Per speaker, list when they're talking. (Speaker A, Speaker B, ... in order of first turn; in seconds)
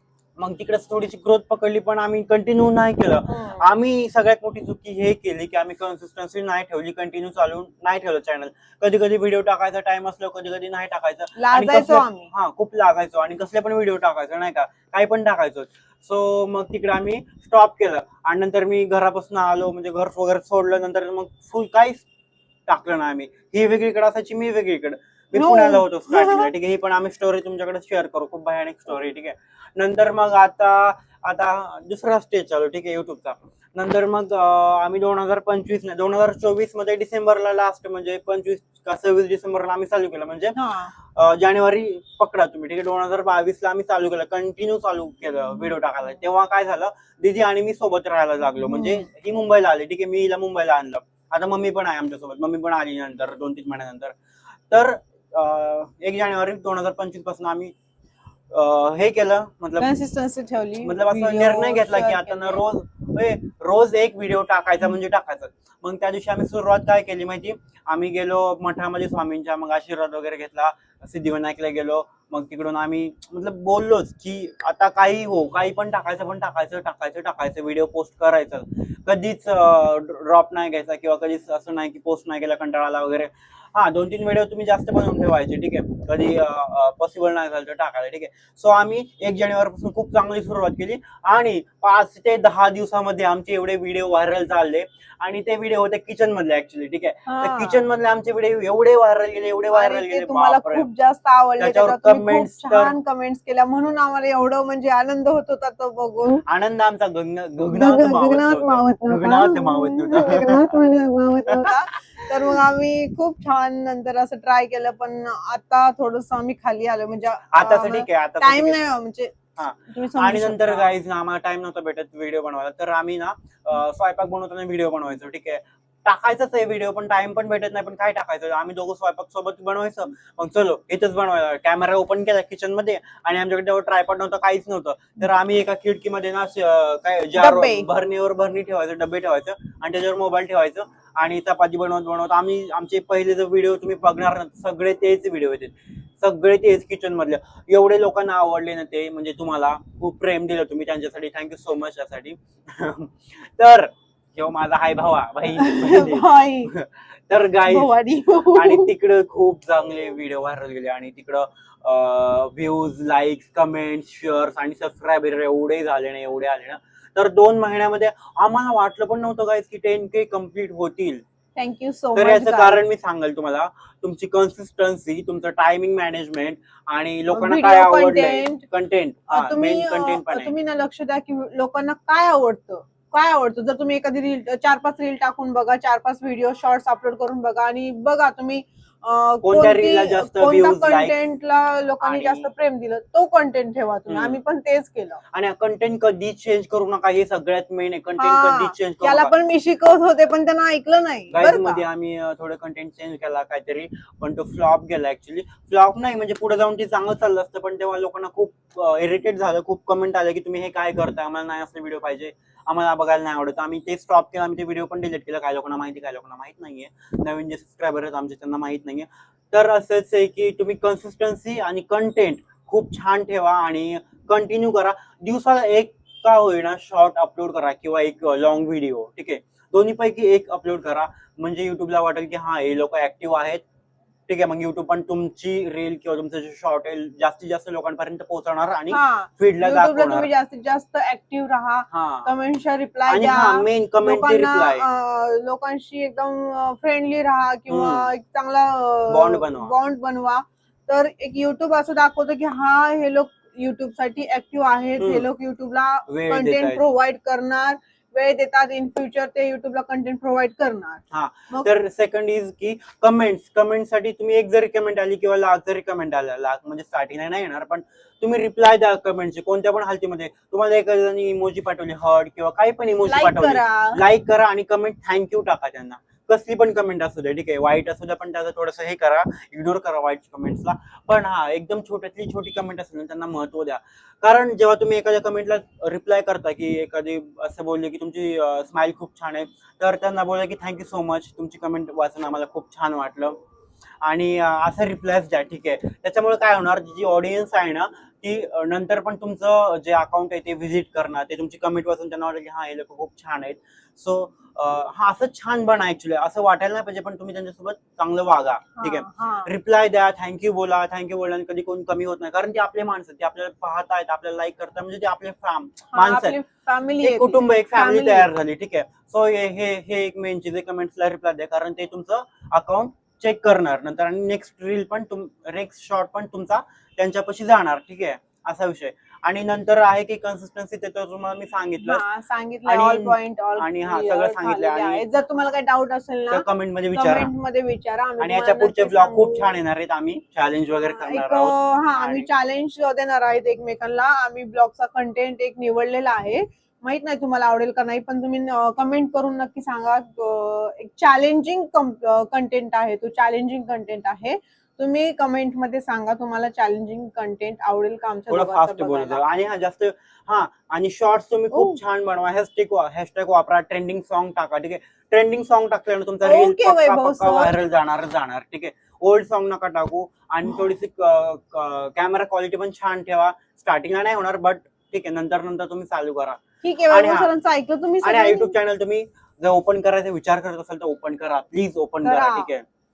Speaker A: 0.4-22.1, 22.7-54.1, 54.7-57.7, 58.5-59.9, 60.8-100.9, 101.6-102.9, 106.5-110.8, 117.5-118.8, 119.5-157.9, 158.4-171.2, 172.1-180.5, 189.4-191.2, 192.0-192.5, 194.1-194.4, 195.3-199.3, 201.3-233.6, 234.3-240.3, 241.9-242.3, 243.1-244.8, 247.7-248.1, 249.1-249.7, 255.0-255.3, 256.1-256.8, 261.1-293.4, 294.0-316.4, 317.0-332.0, 332.6-335.0, 336.3-337.3, 338.2-342.3, 358.3-377.3, 378.0-382.6
Speaker B: 3.3-3.6, 11.3-12.3, 25.3-26.5, 40.5-40.9, 48.7-49.0, 59.8-62.6, 97.3-97.8, 99.7-106.4, 107.7-119.4, 119.9-120.9, 137.3-137.9, 155.5-156.7, 157.6-158.9, 171.6-172.8, 177.3-178.6, 179.3-195.2, 198.2-201.8, 238.9-261.7, 273.0-274.0, 308.8-309.5, 315.9-318.3, 331.8-339.5, 340.9-359.2, 361.5-361.8, 366.2-367.6, 376.6-378.5, 382.0-382.5